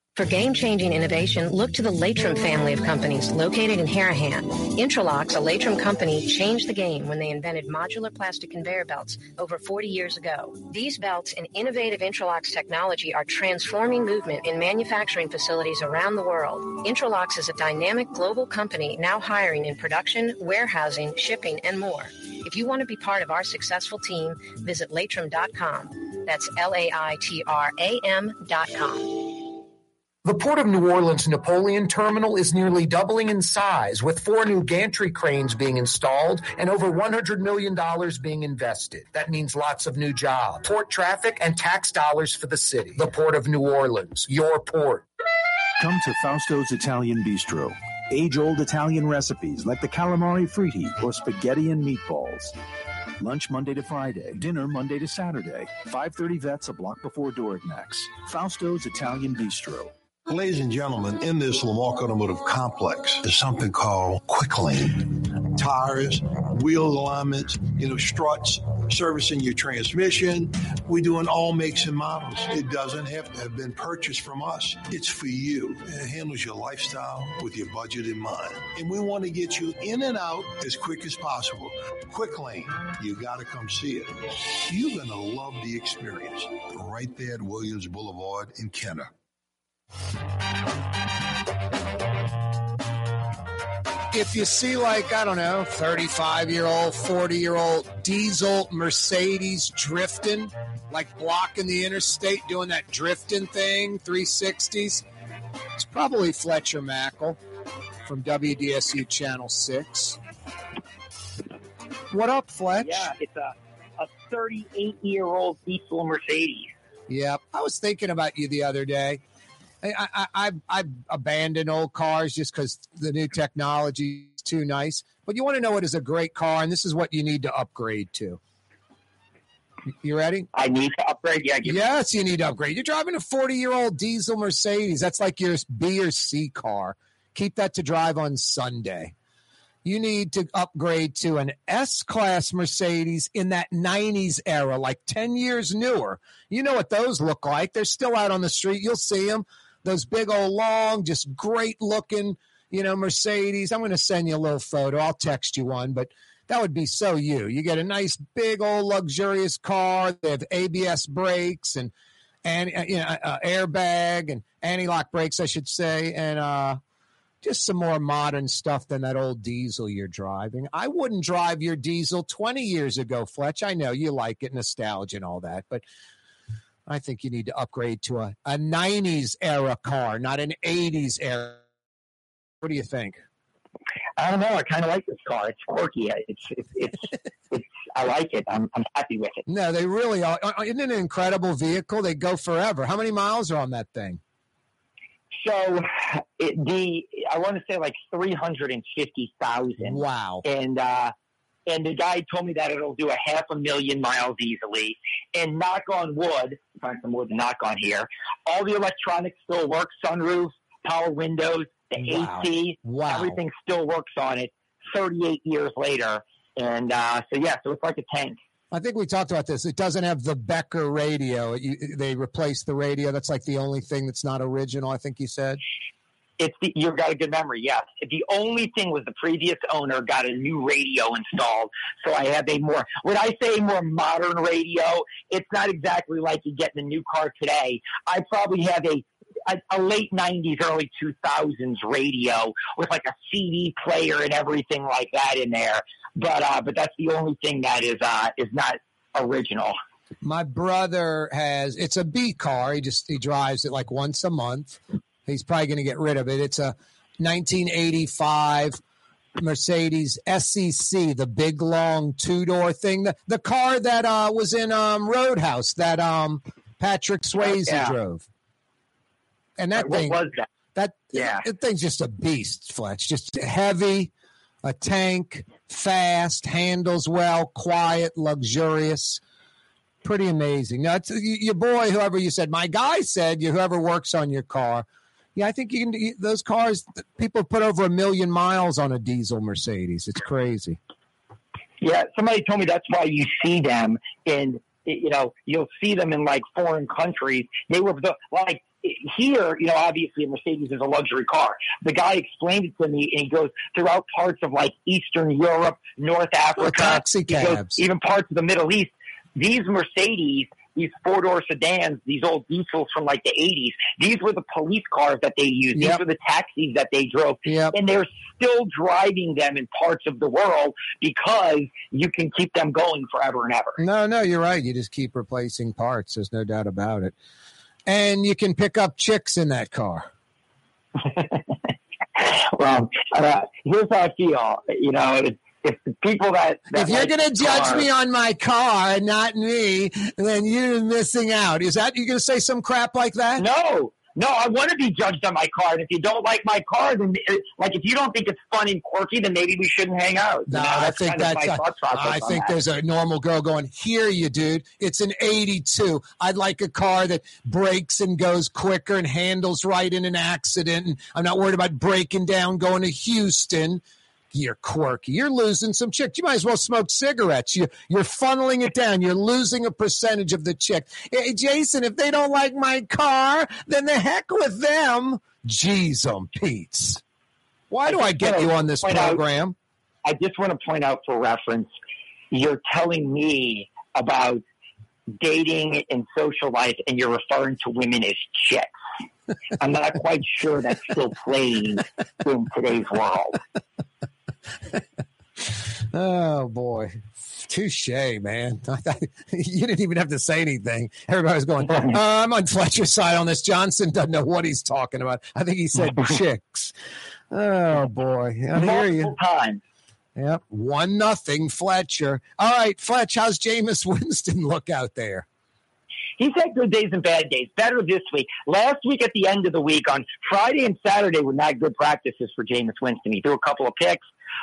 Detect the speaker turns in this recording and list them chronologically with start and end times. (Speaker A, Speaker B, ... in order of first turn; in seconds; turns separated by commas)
Speaker A: 0.1-29.6, Speaker B: 30.2-45.0, Speaker C: 45.8-52.6, Speaker C: 53.2-59.9, Speaker D: 60.3-89.1, Speaker B: 94.1-105.0, Speaker B: 105.8-107.4, Speaker B: 108.1-110.2, Speaker B: 112.1-113.1, Speaker E: 112.8-116.7, Speaker B: 117.1-119.2, Speaker B: 119.8-128.4, Speaker B: 130.0-130.5, Speaker E: 130.6-131.8, Speaker B: 131.7-139.1, Speaker B: 139.8-161.9, Speaker B: 162.4-166.8, Speaker B: 167.4-175.8, Speaker B: 176.9-181.6, Speaker B: 182.6-183.2, Speaker E: 184.2-189.4, Speaker B: 189.5-194.2, Speaker E: 195.4-201.1, Speaker B: 199.8-200.4, Speaker E: 201.7-218.4, Speaker B: 212.0-213.4, Speaker B: 218.7-225.6, Speaker E: 226.4-249.8, Speaker B: 250.2-258.8, Speaker B: 259.4-268.3, Speaker E: 267.4-267.9, Speaker B: 269.6-270.2, Speaker E: 269.8-270.4, Speaker B: 270.8-274.1, Speaker E: 271.1-271.4, Speaker B: 274.6-279.2, Speaker B: 280.0-290.8, Speaker E: 291.8-323.8, Speaker B: 306.6-307.8, Speaker B: 315.7-316.0, Speaker B: 317.4-317.7, Speaker B: 323.8-327.1, Speaker B: 327.9-330.1, Speaker E: 331.1-331.4, Speaker E: 332.2-337.9, Speaker B: 336.7-343.4, Speaker E: 343.4-352.5, Speaker B: 350.5-363.8, Speaker B: 364.3-377.0, Speaker B: 377.7-379.6, Speaker E: 377.9-379.2, Speaker E: 380.1-381.7, Speaker E: 382.3-384.4, Speaker E: 385.2-388.7, Speaker E: 389.6-393.4, Speaker B: 395.9-406.7, Speaker B: 407.3-409.1, Speaker E: 408.6-409.6, Speaker B: 410.2-415.3, Speaker E: 416.2-424.0